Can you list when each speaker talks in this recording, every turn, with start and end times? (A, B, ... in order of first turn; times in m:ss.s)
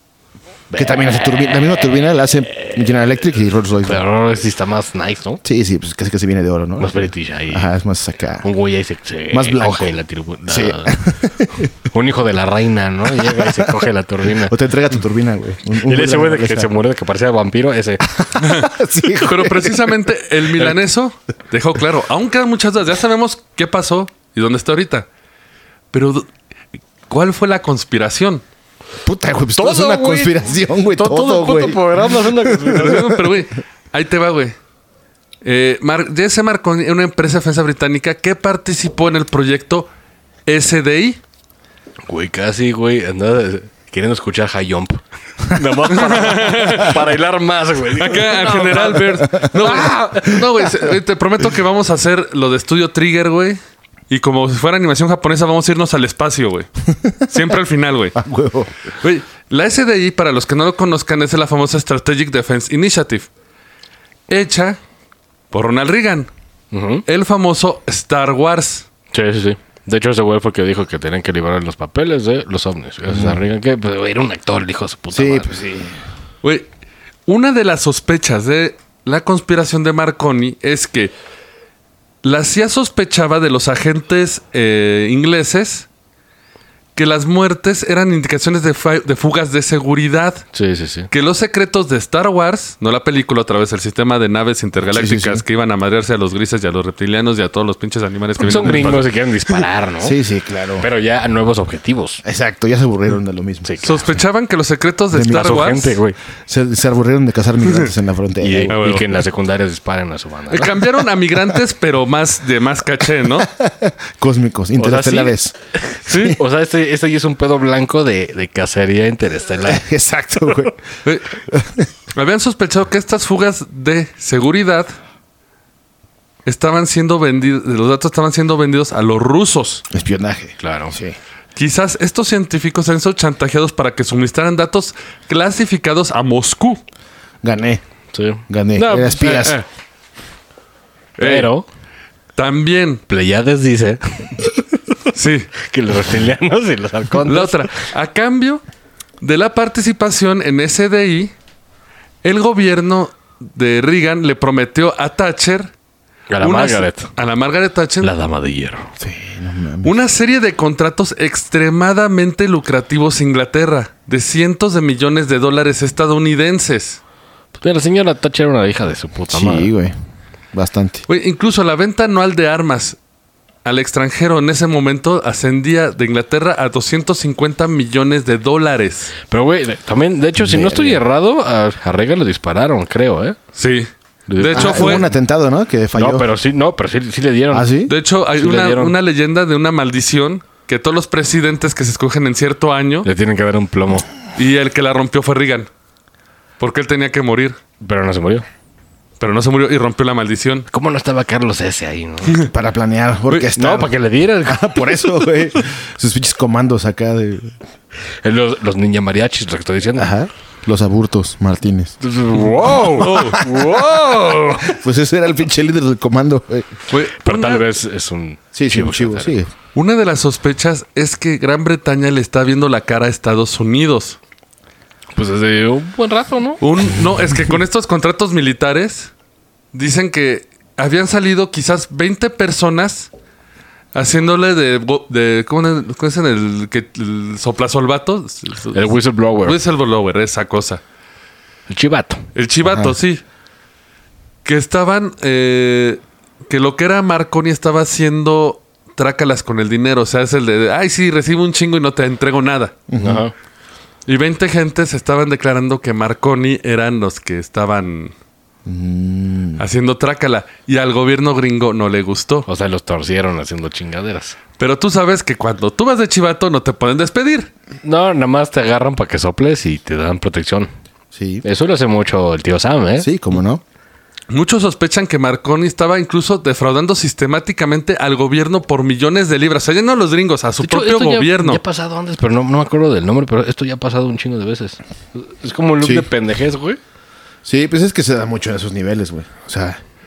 0:00.7-0:02.9 A
0:00.7-0:04.0 B
0:03.8-0:05.4 A
0:05.4-0:08.5 B
0:06.8-0:07.7 A
0:08.4-0:11.0 A
0:09.3-0:11.7 B
0:11.9-0:14.5 A
0:13.1-0:13.8 B
0:14.4-0:16.7 B
0:15.8-0:18.0 A
0:18.0-0:19.9 B
0:18.4-0:25.1 C
0:25.9-0:26.3 C
0:27.1-0:28.4 C
0:29.0-0:33.3 B
0:29.6-0:33.1 A
0:32.7-0:34.6 C
0:35.4-0:39.9 C
0:40.5-0:41.2 C
0:42.1-0:50.4 A
0:45.9-0:47.0 C
0:48.0-0:53.6 C
0:49.2-0:49.8 B
0:54.1-0:56.7 C
0:57.2-0:58.2 C
0:58.2-0:58.7 B
0:59.0-1:03.3 C
1:04.3-1:04.8 C
1:05.5-1:06.3 C
1:06.7-1:07.0 A
1:07.1-1:08.8 C
1:09.1-1:15.5 A
1:13.1-1:13.4 B
1:15.1-1:16.0 B
1:16.4-1:16.7 C
1:17.3-1:21.1 C
1:22.2-1:25.9 C
1:27.0-1:30.4 C
1:30.5-1:31.1 A
1:31.1-1:39.2 C
1:34.9-1:35.4 B
1:38.4-1:40.2 A
1:40.0-1:40.8 B
1:40.8-1:42.2 A
1:42.2-1:43.7 B
1:43.6-1:44.0 A
1:43.8-1:46.0 C
1:45.1-1:45.6 B
1:45.2-1:46.2 A
1:46.5-1:48.7 B
1:48.4-1:50.7 A
1:48.7-1:49.1 C
1:50.5-1:53.5 C
1:53.4-1:55.5 B
1:54.8-1:59.8 A
1:56.1-1:56.4 C
1:59.6-2:00.8 B
2:01.0-2:01.3 C
2:01.4-2:01.9 B
2:02.1-2:04.9 C
2:06.4-2:09.8 C
2:09.9-2:11.2 B
2:10.6-2:11.0 A
2:11.6-2:16.8 C
2:17.4-2:17.8 B
2:18.1-2:19.6 A
2:18.5-2:19.6 B
2:21.2-2:21.5 C
2:21.2-2:21.6 A
2:22.4-2:23.0 C
2:23.1-2:24.7 A
2:25.1-2:25.5 C
2:25.6-2:27.7 A
2:27.2-2:28.6 C
2:29.2-2:31.3 C
2:32.2-2:35.7 C
2:36.3-2:37.1 A
2:36.4-2:38.1 C
2:38.0-2:38.9 A
2:39.0-2:40.0 B
2:39.8-2:47.0 C
2:47.6-2:49.7 A
2:49.3-2:49.9 B
2:50.5-2:51.0 B
2:51.1-2:53.0 C
2:53.6-2:59.1 C
2:59.3-3:03.4 A
3:00.4-3:01.0 B
3:03.6-3:05.0 C
3:04.3-3:05.1 A
3:04.5-3:06.3 B
3:05.9-3:07.7 A
3:07.5-3:07.9 B
3:07.9-3:13.1 C
3:08.4-3:09.0 A
3:13.0-3:14.1 A
3:14.4-3:15.7 C
3:16.6-3:17.6 C
3:17.8-3:18.4 A
3:19.2-3:20.7 C
3:20.7-3:22.5 A
3:22.5-3:23.9 B
3:23.6-3:24.8 A
3:24.4-3:27.5 B
3:28.2-3:30.1 A
3:30.0-3:32.0 B
3:32.0-3:34.8 A
3:32.9-3:33.5 C
3:34.6-3:36.7 B
3:36.9-3:37.6 C
3:37.2-3:39.4 A
3:38.5-3:39.5 B
3:39.7-3:44.2 C
3:45.1-3:46.6 A
3:46.6-3:49.1 C
3:49.7-3:53.1 C
3:53.9-3:58.9 C
3:58.7-3:59.6 A
3:59.4-4:00.8 C
4:01.7-4:02.2 A
4:02.3-4:03.2 C
4:02.6-4:03.0 B
4:04.4-4:12.7 C
4:12.9-4:13.2 B
4:13.0-4:13.3 A
4:14.1-4:18.1 C
4:18.6-4:19.6 B
4:19.6-4:22.5 C
4:22.5-4:24.4 A
4:24.6-4:27.5 C
4:27.8-4:30.7 A
4:31.1-4:31.4 B
4:31.4-4:33.1 A
4:33.0-4:33.6 B
4:34.3-4:41.6 C
4:40.6-4:46.8 A
4:45.8-4:46.1 B
4:47.4-4:49.8 B